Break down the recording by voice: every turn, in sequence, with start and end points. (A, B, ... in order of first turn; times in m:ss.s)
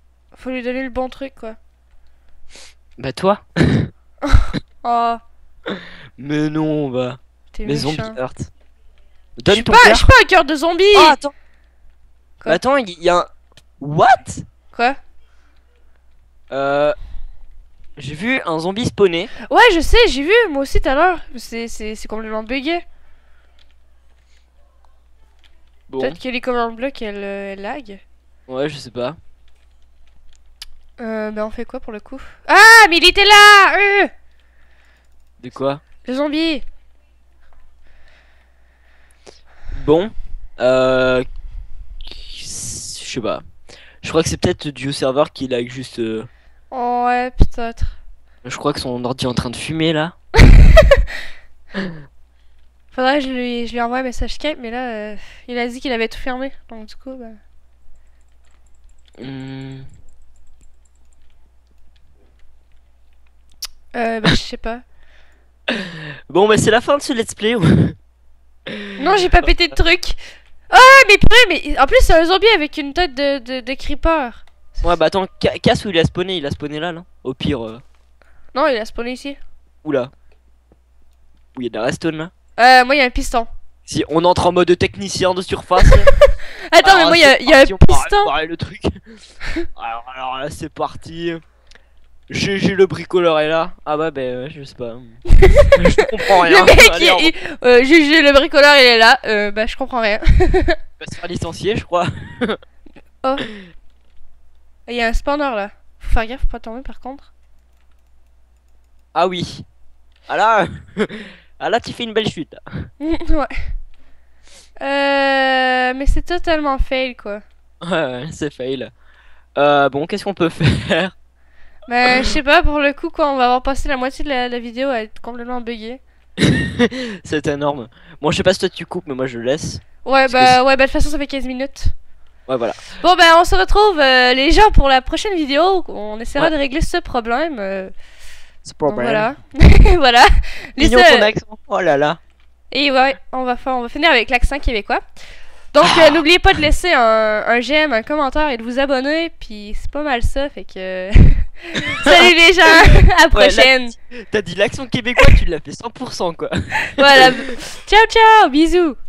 0:00.3-0:01.6 A
0:03.0-0:03.9 B
0:04.2-0:05.2 A
0:05.7-0:08.5 B
0:07.5-0:08.2 A
0:09.4-0:10.1 B
0:09.5-0:11.2 A
0:10.9-0:11.3 B
0:12.4-0:13.3 B
0:13.8-0:14.4 B
0:14.7-0:15.0 A
0:16.5-0:17.0 B
0:18.0-0:19.3 B
0:19.5-0:22.8 A
0:25.9-0:26.2 B
0:26.0-0:28.0 A
0:28.5-0:29.2 B
0:31.0-0:34.1 A
0:35.4-0:35.8 B
0:36.0-0:36.6 A
0:39.7-0:41.2 B
0:42.0-0:43.4 B
0:44.0-0:46.3 B
0:46.7-0:48.0 A
0:48.4-0:50.1 B
0:50.5-0:51.0 A
0:52.9-0:57.4 A
0:59.2-0:59.9 B
1:03.9-1:04.8 A
1:05.7-1:08.0 B
1:08.7-1:09.8 B
1:09.0-1:10.2 A
1:10.7-1:14.8 A
1:14.8-1:17.8 B
1:18.5-1:19.4 A
1:19.8-1:20.1 B
1:21.5-1:22.3 B
1:22.6-1:23.5 A
1:23.9-1:26.1 B
1:26.7-1:28.3 A
1:26.8-1:29.0 B
1:29.8-1:31.4 B
1:32.3-1:35.2 B
1:35.4-1:35.7 A
1:35.7-1:37.3 B
1:36.3-1:40.8 A
1:41.0-1:42.6 B
1:44.9-1:47.3 A
1:49.1-1:49.6 B
1:50.3-1:52.9 B
1:53.0-1:53.7 A
1:54.8-1:57.4 A
1:57.8-1:58.9 B
1:59.6-2:01.1 B
2:01.9-2:06.0 A
2:06.4-2:10.6 B
2:10.0-2:11.9 A
2:12.5-2:12.8 B
2:13.0-2:17.9 A
2:18.6-2:19.3 B
2:18.8-2:21.3 A
2:20.8-2:22.2 B
2:22.7-2:25.0 A
2:25.7-2:33.9 A
2:25.8-2:26.2 B
2:32.7-2:37.5 B
2:36.9-2:39.0 A